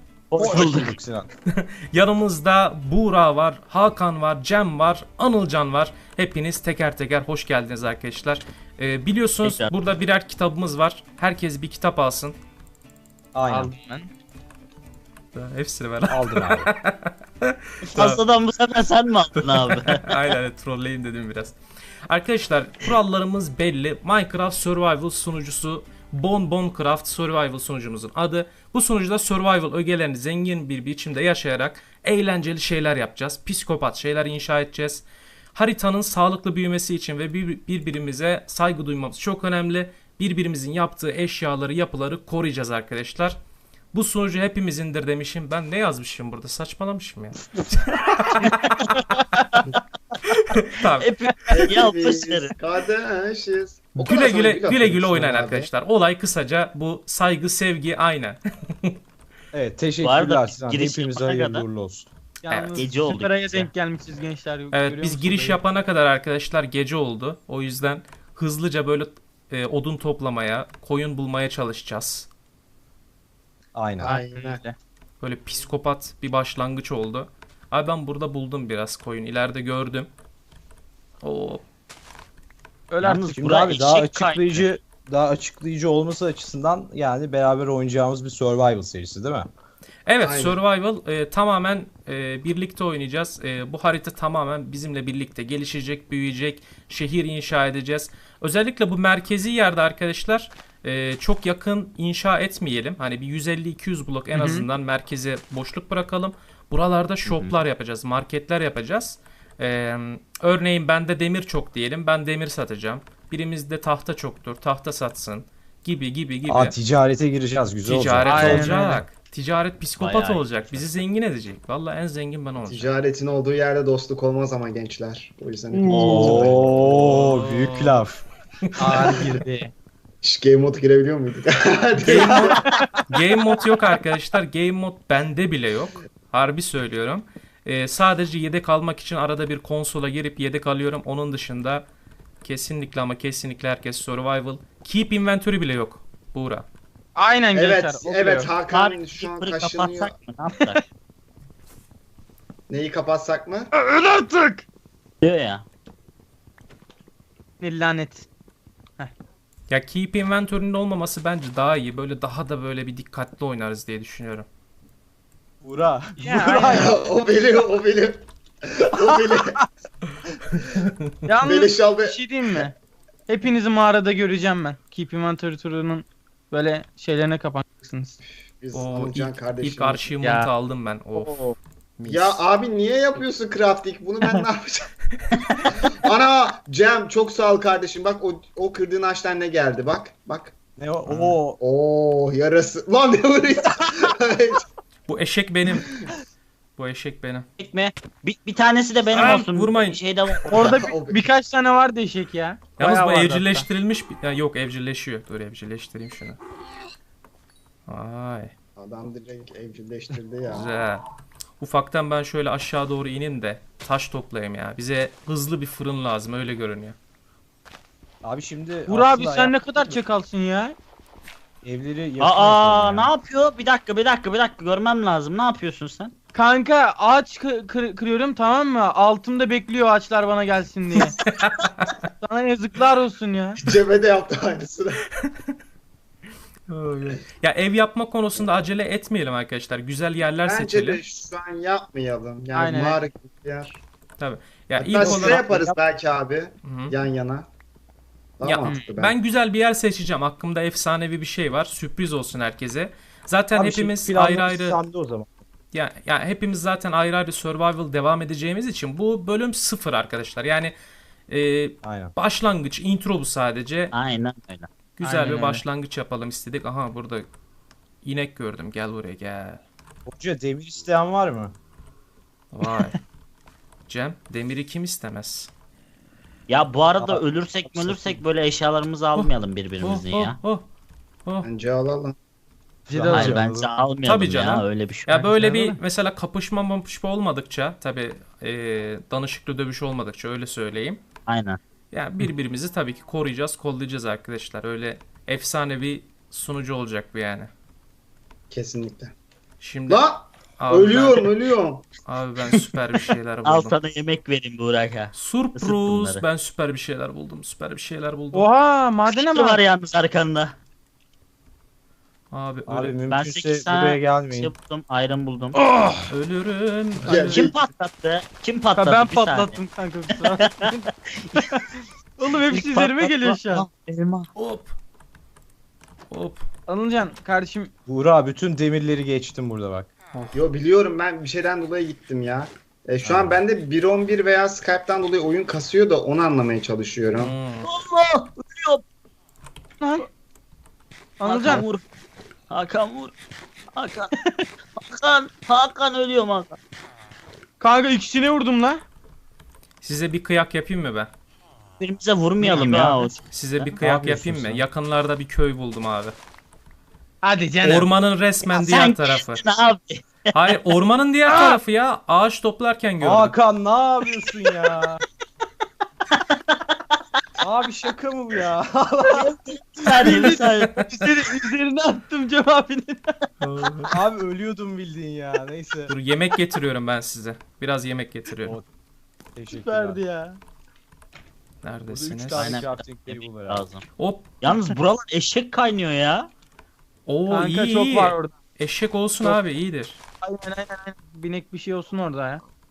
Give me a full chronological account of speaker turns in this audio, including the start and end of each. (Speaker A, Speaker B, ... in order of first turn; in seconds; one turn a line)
Speaker A: 0.3-0.9
Speaker B: 0.4-1.3
Speaker C: 1.5-12.4
Speaker A: 9.4-9.7
Speaker B: 13.3-13.7
Speaker D: 13.5-14.1
Speaker C: 15.3-18.2
Speaker B: 16.1-16.7
Speaker A: 17.9-20.2
Speaker C: 19.4-43.4
Speaker C: 43.9-49.4
Speaker C: 50.2-51.1
Speaker A: 51.0-52.5
Speaker E: 51.5-55.7
Speaker C: 54.0-59.0
Speaker B: 59.5-62.1
Speaker A: 60.0-61.6
Speaker D: 62.4-65.6
Speaker C: 62.5-62.9
Speaker A: 62.8-63.7
Speaker C: 64.7-72.3
Speaker B: 73.8-74.2
Speaker E: 74.0-74.6
Speaker D: 74.0-74.8
Speaker C: 75.2-80.1
Speaker C: 81.2-81.6
Speaker D: 82.9-83.4
Speaker A: 83.0-84.7
Speaker B: 83.4-89.5
Speaker C: 90.1-116.8
Speaker E: 90.2-90.6
Speaker D: 104.3-104.7
Speaker A: 107.3-107.5
Speaker B: 116.5-118.8
Speaker C: 117.8-122.9
Speaker D: 118.3-119.0
Speaker A: 120.0-120.9
Speaker E: 122.6-127.2
Speaker B: 125.9-128.2
Speaker A: 126.1-126.5
Speaker D: 127.0-128.0
Speaker B: 128.8-129.4
Speaker D: 128.8-129.7
Speaker E: 128.8-129.4
Speaker E: 130.2-132.6
Speaker C: 132.0-141.9
Speaker D: 132.6-133.0
Speaker C: 142.4-146.7
Speaker D: 147.2-148.5
Speaker E: 147.5-150.1
Speaker A: 148.7-150.8
Speaker E: 152.7-153.7
Speaker D: 153.7-154.7
Speaker A: 155.2-155.6
Speaker D: 157.6-158.3
Speaker C: 159.7-164.5
Speaker B: 165.6-166.9
Speaker D: 166.2-167.0
Speaker E: 166.5-169.6
Speaker D: 171.3-172.8
Speaker E: 171.4-172.7
Speaker D: 173.3-178.2
Speaker E: 178.5-180.1
Speaker C: 178.7-181.4
Speaker D: 180.2-180.5
Speaker D: 181.2-181.6
Speaker C: 182.0-182.4
Speaker E: 182.1-184.9
Speaker E: 185.8-190.6
Speaker B: 190.8-191.6
Speaker C: 191.1-191.4
Speaker E: 191.6-194.6
Speaker C: 195.1-195.9
Speaker E: 195.8-196.1
Speaker C: 196.8-197.5
Speaker A: 197.6-200.6
Speaker C: 199.1-200.0
Speaker E: 200.5-201.2
Speaker D: 200.5-203.7
Speaker C: 202.8-206.4
Speaker C: 207.9-208.5
Speaker E: 208.8-210.8
Speaker C: 210.5-211.1
Speaker C: 211.6-217.0
Speaker B: 218.2-220.0
Speaker D: 218.9-220.8
Speaker B: 221.6-223.1
Speaker A: 222.2-226.2
Speaker D: 226.3-231.2
Speaker C: 231.2-232.0
Speaker D: 232.2-233.6
Speaker E: 233.6-235.1
Speaker C: 236.7-241.0
Speaker E: 240.5-243.8
Speaker D: 242.5-243.0
Speaker C: 244.2-245.4
Speaker E: 244.8-247.5
Speaker B: 245.0-245.8
Speaker C: 246.6-246.9
Speaker E: 248.4-249.2
Speaker C: 248.4-254.8
Speaker D: 248.7-248.9
Speaker B: 253.5-255.3
Speaker C: 255.7-260.7
Speaker C: 261.3-263.9
Speaker B: 261.8-262.1
Speaker A: 263.9-264.7
Speaker C: 265.0-267.3
Speaker D: 265.0-265.6
Speaker C: 268.0-269.6
Speaker B: 270.1-271.6
Speaker C: 272.5-273.0
Speaker C: 273.9-275.5
Speaker A: 276.5-280.4
Speaker B: 277.0-278.2
Speaker C: 279.1-280.6
Speaker E: 281.4-282.2
Speaker D: 282.9-283.4
Speaker B: 282.9-283.7
Speaker A: 283.1-285.2
Speaker C: 284.1-291.0
Speaker D: 285.1-285.8
Speaker A: 291.3-291.6
Speaker C: 291.9-297.5
Speaker E: 298.5-299.1
Speaker C: 299.6-300.0
Speaker E: 299.9-301.9
Speaker C: 300.6-301.3
Speaker C: 302.0-303.8
Speaker A: 303.4-306.2
Speaker C: 305.1-308.5
Speaker D: 308.3-309.6
Speaker A: 309.1-310.6
Speaker C: 312.3-313.0
Speaker B: 312.7-314.5
Speaker A: 313.1-315.6
Speaker D: 315.6-316.1
Speaker C: 316.1-317.5
Speaker E: 317.1-317.6
Speaker A: 317.3-319.6
Speaker D: 318.8-323.7
Speaker A: 320.3-321.6
Speaker A: 322.5-324.3
Speaker C: 324.4-324.8
Speaker C: 326.1-326.5
Speaker D: 326.7-327.7
Speaker B: 327.9-329.9
Speaker E: 330.3-337.3
Speaker B: 333.0-333.4
Speaker C: 337.2-337.7
Speaker A: 337.6-338.8
Speaker D: 339.8-340.1
Speaker D: 341.2-341.7
Speaker A: 341.2-341.8
Speaker A: 342.5-343.1
Speaker A: 343.7-344.1
Speaker A: 344.8-346.6
Speaker D: 347.6-348.8
Speaker C: 349.8-351.1
Speaker A: 351.8-353.7
Speaker D: 352.4-353.1
Speaker C: 353.3-356.2
Speaker B: 353.8-354.6
Speaker D: 357.2-357.9
Speaker C: 357.6-359.4
Speaker A: 358.5-360.6
Speaker C: 360.3-363.4
Speaker B: 363.0-365.0
Speaker A: 366.1-367.0
Speaker B: 367.4-369.3
Speaker A: 369.1-370.8
Speaker D: 369.9-373.3
Speaker C: 370.0-371.1
Speaker C: 373.4-373.9
Speaker B: 373.9-375.9
Speaker C: 375.9-378.6
Speaker B: 379.4-380.0
Speaker D: 379.5-380.4
Speaker C: 381.6-382.6
Speaker B: 381.9-383.7
Speaker A: 382.4-383.9
Speaker C: 384.0-384.6
Speaker A: 384.4-386.3
Speaker C: 387.1-390.0
Speaker D: 387.3-388.4
Speaker D: 390.2-392.4